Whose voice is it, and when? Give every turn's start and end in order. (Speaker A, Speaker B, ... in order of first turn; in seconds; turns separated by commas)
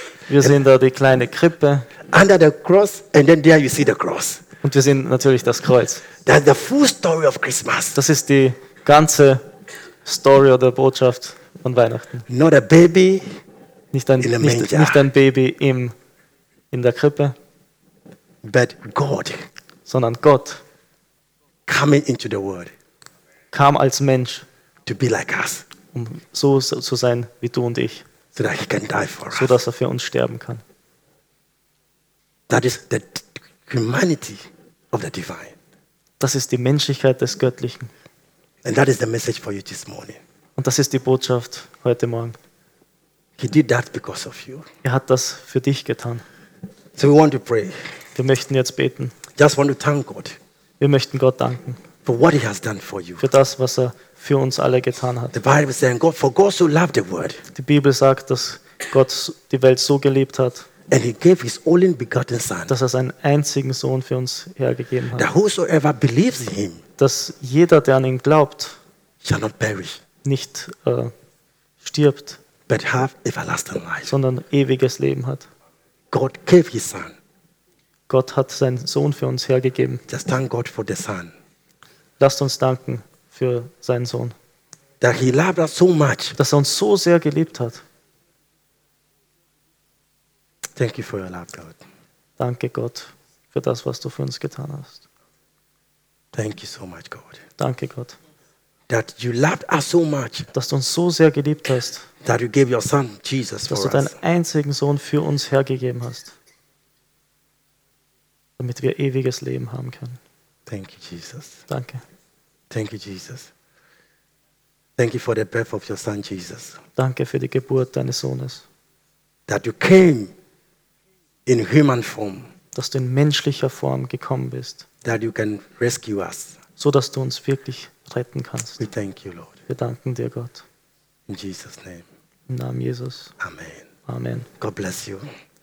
Speaker A: 0.3-1.9, Speaker B: 2.1-4.4, Speaker A: 4.6-6.0, Speaker B: 6.2-8.0, Speaker A: 7.9-9.4, Speaker A: 10.0-12.2, Speaker B: 12.3-13.2, Speaker A: 13.9-15.9, Speaker B: 14.2-15.0, Speaker A: 16.7-17.3, Speaker B: 18.4-19.4, Speaker A: 19.9-20.6, Speaker B: 21.7-22.7, Speaker A: 23.5-24.4, Speaker B: 24.9-25.6, Speaker A: 25.9-28.0, Speaker B: 28.3-29.5, Speaker A: 29.3-30.6, Speaker B: 32.5-35.5, Speaker A: 36.2-37.9, Speaker B: 38.6-40.2, Speaker A: 40.6-42.4, Speaker B: 43.4-44.6, Speaker A: 44.8-46.2, Speaker B: 47.0-47.7, Speaker A: 48.1-49.1, Speaker B: 49.4-50.4, Speaker A: 50.8-51.8, Speaker B: 52.0-53.2, Speaker A: 53.2-55.4, Speaker B: 55.3-57.4, Speaker A: 57.5-60.7, Speaker B: 60.9-62.7, Speaker A: 62.7-65.3, Speaker B: 65.2-66.8, Speaker A: 67.0-68.8, Speaker B: 69.2-70.0, Speaker A: 70.2-71.1, Speaker A: 71.8-72.4, Speaker B: 72.7-74.1, Speaker A: 74.1-75.5, Speaker B: 76.1-77.1, Speaker A: 78.1-80.0, Speaker B: 80.1-81.3, Speaker A: 82.2-84.3, Speaker B: 85.0-86.3, Speaker A: 86.4-87.8, Speaker B: 90.8-91.8, Speaker A: 92.4-95.0, Speaker B: 96.3-97.3, Speaker A: 97.6-98.2, Speaker B: 98.9-100.5, Speaker A: 100.5-102.0, Speaker B: 102.2-104.1, Speaker A: 103.7-106.3, Speaker A: 108.6-110.2, Speaker B: 110.7-111.6, Speaker A: 111.7-112.0, Speaker B: 112.7-113.5, Speaker B: 115.0-116.8, Speaker A: 117.0-118.6, Speaker B: 119.5-120.3, Speaker B: 121.5-122.5, Speaker A: 122.7-124.8, Speaker B: 125.0-126.5, Speaker A: 126.8-128.8, Speaker B: 128.8-129.5, Speaker A: 129.7-130.6, Speaker B: 131.3-132.0, Speaker A: 132.5-133.3, Speaker B: 133.4-133.8, Speaker A: 134.1-134.5, Speaker B: 134.6-135.3